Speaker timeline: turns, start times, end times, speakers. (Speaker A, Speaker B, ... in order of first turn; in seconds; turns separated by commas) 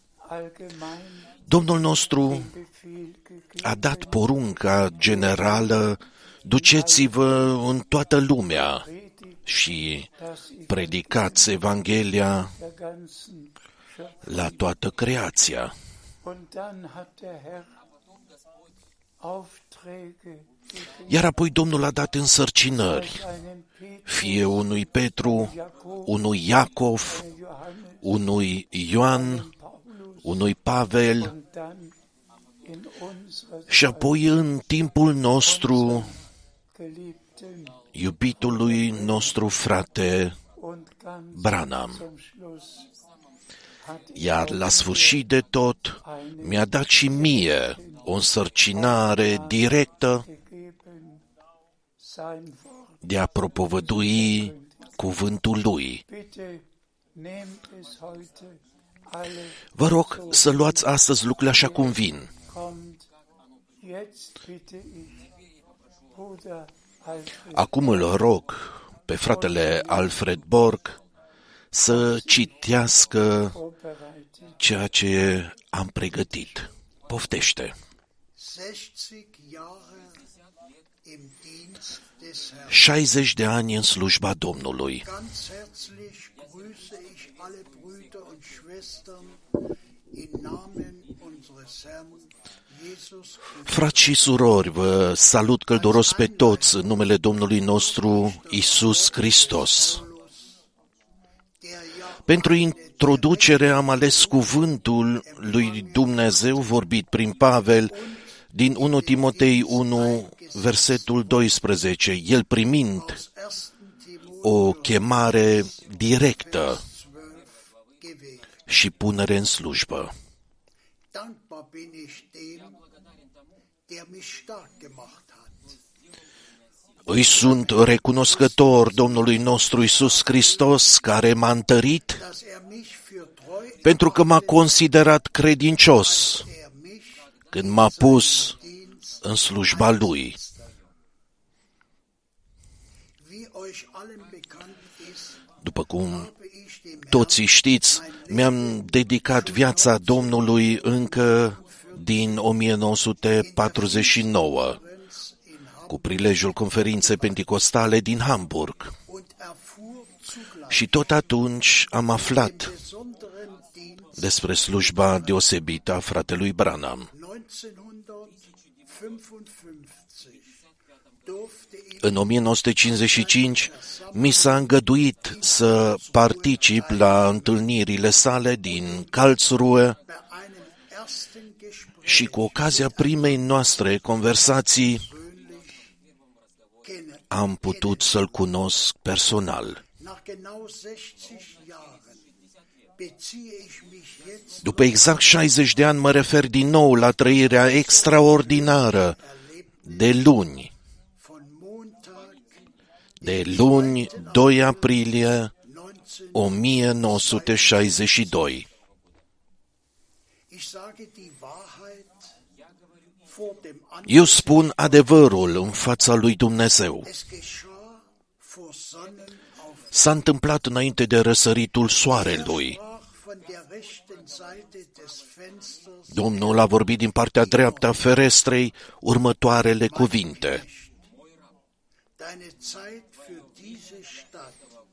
Speaker A: 0.2-5.9, Speaker B: 1.5-2.5, Speaker B: 3.6-8.8, Speaker A: 6.5-7.6, Speaker A: 8.7-9.5, Speaker B: 9.4-10.1, Speaker A: 10.1-11.6, Speaker B: 10.7-12.5, Speaker A: 12.5-14.7, Speaker B: 14.2-15.7, Speaker A: 16.2-17.7, Speaker A: 19.2-21.3, Speaker B: 21.1-23.2, Speaker A: 22.8-26.2, Speaker B: 24.1-25.5, Speaker B: 26.1-27.2, Speaker A: 27.0-28.2, Speaker B: 28.0-29.5, Speaker A: 29.0-30.4, Speaker B: 30.2-31.3, Speaker A: 31.0-31.9, Speaker A: 32.6-34.4, Speaker B: 33.7-36.1, Speaker A: 35.4-36.2, Speaker A: 36.7-37.8, Speaker B: 37.9-40.4, Speaker A: 38.5-39.5, Speaker A: 40.5-42.9, Speaker B: 41.3-42.0, Speaker A: 43.8-45.3, Speaker B: 44.1-50.2, Speaker A: 46.0-48.1, Speaker A: 48.7-51.2, Speaker A: 52.0-55.0, Speaker B: 53.0-56.0, Speaker A: 56.1-61.0, Speaker B: 59.8-62.3, Speaker A: 61.5-63.1, Speaker A: 63.8-65.3, Speaker A: 66.1-68.2, Speaker B: 67.5-71.0, Speaker A: 69.3-70.2, Speaker B: 71.7-73.6, Speaker A: 71.9-74.6, Speaker B: 74.6-77.7, Speaker C: 78.3-80.2, Speaker C: 81.0-82.8, Speaker B: 82.7-85.1, Speaker C: 85.0-89.4, Speaker C: 90.1-94.0, Speaker B: 93.6-100.0, Speaker C: 95.7-96.9, Speaker C: 97.5-100.7, Speaker C: 101.6-106.7, Speaker B: 102.2-108.0, Speaker C: 107.9-111.5, Speaker B: 108.5-113.2, Speaker C: 113.0-118.5, Speaker B: 114.4-116.8, Speaker B: 118.7-120.1, Speaker C: 121.1-122.8, Speaker C: 123.9-125.8, Speaker B: 127.0-132.2, Speaker C: 127.3-131.0, Speaker C: 132.2-134.9, Speaker B: 133.8-136.5, Speaker C: 135.8-140.7, Speaker B: 137.5-138.6, Speaker B: 139.2-140.3, Speaker C: 143.2-145.4, Speaker B: 145.6-146.3, Speaker C: 146.0-152.5, Speaker B: 147.1-154.8, Speaker C: 153.4-157.4, Speaker B: 155.9-158.9, Speaker C: 159.1-161.0, Speaker B: 160.7-162.7, Speaker C: 162.1-164.2, Speaker B: 164.2-167.1, Speaker C: 164.9-165.4, Speaker C: 167.1-170.6, Speaker C: 171.2-172.3, Speaker B: 172.0-180.0, Speaker C: 172.9-174.7, Speaker C: 175.4-177.7, Speaker C: 178.7-179.3, Speaker C: 179.9-183.6, Speaker B: 182.0-185.1, Speaker C: 184.5-185.9, Speaker C: 186.8-188.3, Speaker B: 187.3-189.8, Speaker C: 190.0-192.2, Speaker C: 193.0-195.2, Speaker B: 194.6-199.2, Speaker C: 197.5-200.2, Speaker B: 199.8-200.7, Speaker C: 201.2-202.6, Speaker C: 203.2-205.0, Speaker B: 203.2-205.5, Speaker C: 205.6-208.7, Speaker B: 206.3-208.7, Speaker C: 210.5-212.3, Speaker C: 213.2-215.2, Speaker B: 214.1-217.1, Speaker C: 217.0-219.9, Speaker B: 219.9-222.8, Speaker C: 222.1-226.7, Speaker B: 226.1-230.6, Speaker C: 227.4-227.9, Speaker C: 229.9-231.1, Speaker C: 232.2-234.6